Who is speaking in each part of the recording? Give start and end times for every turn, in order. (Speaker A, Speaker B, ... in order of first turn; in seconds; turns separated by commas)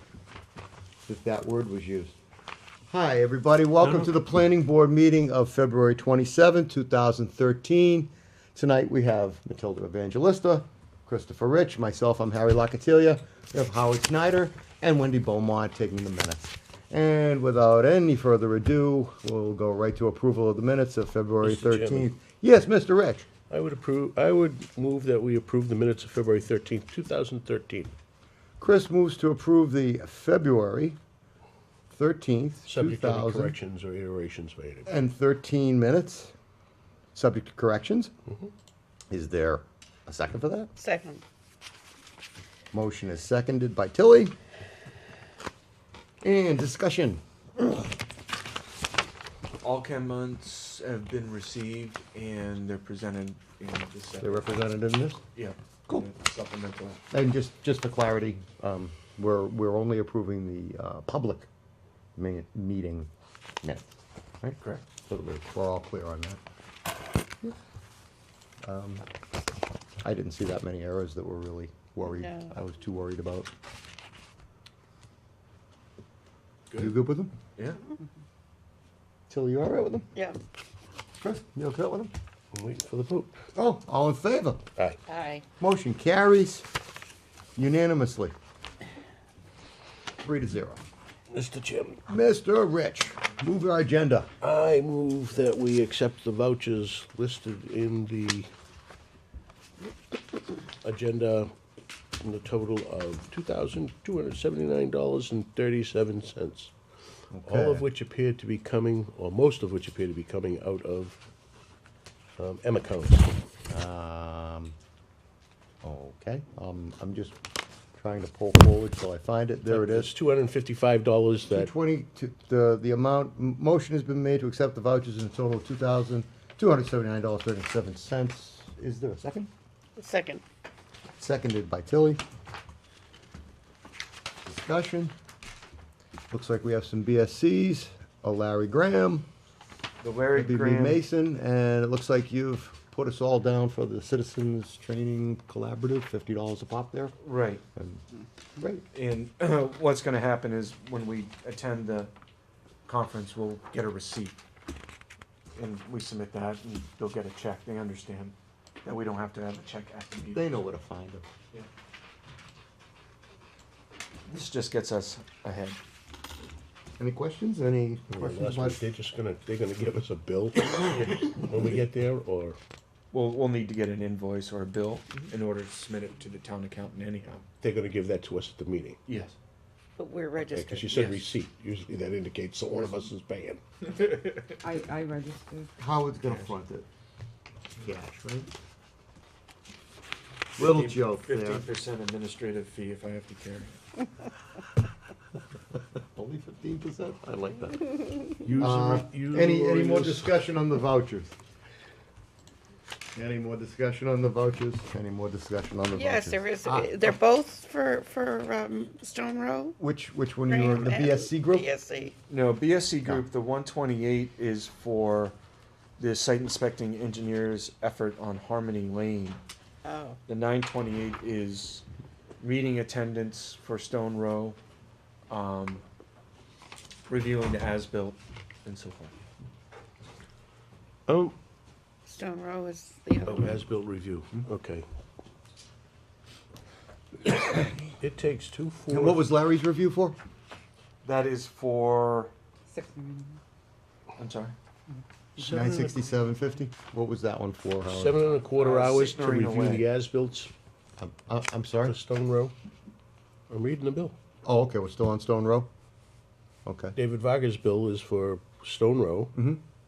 Speaker A: 1.1-2.2, Speaker A: 2.9-23.3, Speaker B: 3.8-4.1, Speaker B: 21.4-22.1, Speaker B: 23.5-27.9, Speaker A: 28.6-31.0, Speaker A: 31.9-33.6, Speaker B: 32.6-34.9, Speaker A: 34.9-36.3, Speaker A: 37.1-38.1, Speaker A: 39.1-40.7, Speaker C: 40.8-41.2, Speaker A: 42.7-44.3, Speaker A: 46.2-47.2, Speaker D: 49.6-54.6, Speaker A: 54.2-55.2, Speaker D: 55.3-57.0, Speaker A: 57.1-61.5, Speaker A: 62.2-63.1, Speaker A: 63.6-63.9, Speaker A: 64.4-66.4, Speaker A: 68.6-69.0, Speaker A: 70.0-73.5, Speaker C: 72.0-72.6, Speaker A: 76.7-77.3, Speaker A: 79.3-80.1, Speaker A: 81.2-82.1, Speaker B: 82.5-83.4, Speaker A: 83.5-84.6, Speaker C: 85.1-85.5, Speaker A: 85.6-86.7, Speaker A: 87.6-88.3, Speaker A: 90.2-90.8, Speaker B: 91.3-92.0, Speaker A: 92.1-94.3, Speaker B: 94.4-98.5, Speaker B: 100.8-101.5, Speaker B: 102.2-106.7, Speaker A: 107.3-107.9, Speaker B: 107.4-111.2, Speaker B: 112.4-113.3, Speaker A: 113.7-114.8, Speaker A: 115.8-117.4, Speaker A: 118.0-120.1, Speaker B: 119.7-121.7, Speaker A: 121.5-129.5, Speaker C: 130.0-130.4, Speaker A: 131.2-132.2, Speaker A: 134.5-135.1, Speaker A: 136.3-139.3, Speaker D: 140.0-141.0, Speaker A: 140.3-147.2, Speaker D: 147.2-147.6, Speaker A: 147.8-148.0, Speaker A: 148.6-148.8, Speaker D: 148.9-152.1, Speaker D: 152.9-154.4, Speaker D: 155.6-160.6, Speaker A: 160.3-161.2, Speaker D: 164.3-165.8, Speaker A: 167.0-168.8, Speaker B: 168.1-172.6, Speaker D: 170.9-171.3, Speaker D: 173.1-177.5, Speaker B: 177.6-179.0, Speaker D: 179.1-179.4, Speaker C: 180.0-181.2, Speaker B: 180.5-183.6, Speaker D: 183.8-184.6, Speaker E: 184.6-185.7, Speaker A: 185.8-186.9, Speaker D: 186.2-186.6, Speaker A: 187.8-188.5, Speaker A: 190.6-191.7, Speaker D: 190.6-193.8, Speaker A: 196.1-201.4, Speaker B: 198.4-200.3, Speaker A: 203.2-207.2, Speaker C: 205.9-209.8, Speaker A: 209.8-211.7, Speaker C: 210.5-212.2, Speaker D: 212.3-215.4, Speaker D: 216.0-219.4, Speaker C: 219.8-220.2, Speaker D: 220.3-221.8, Speaker D: 222.4-224.6, Speaker D: 225.3-225.8, Speaker D: 227.1-229.1, Speaker B: 231.1-231.3, Speaker C: 232.1-233.7, Speaker B: 233.2-234.8, Speaker B: 238.0-239.3, Speaker A: 238.9-240.2, Speaker D: 241.0-242.3, Speaker E: 242.7-243.4, Speaker D: 244.2-244.6, Speaker E: 244.9-246.0, Speaker B: 245.4-245.9, Speaker A: 245.5-248.2, Speaker B: 247.9-250.5, Speaker D: 248.5-249.9, Speaker A: 251.0-252.0, Speaker B: 251.8-252.5, Speaker B: 253.5-254.2, Speaker A: 254.4-255.7, Speaker A: 256.6-257.0, Speaker B: 257.0-259.3, Speaker A: 259.4-259.6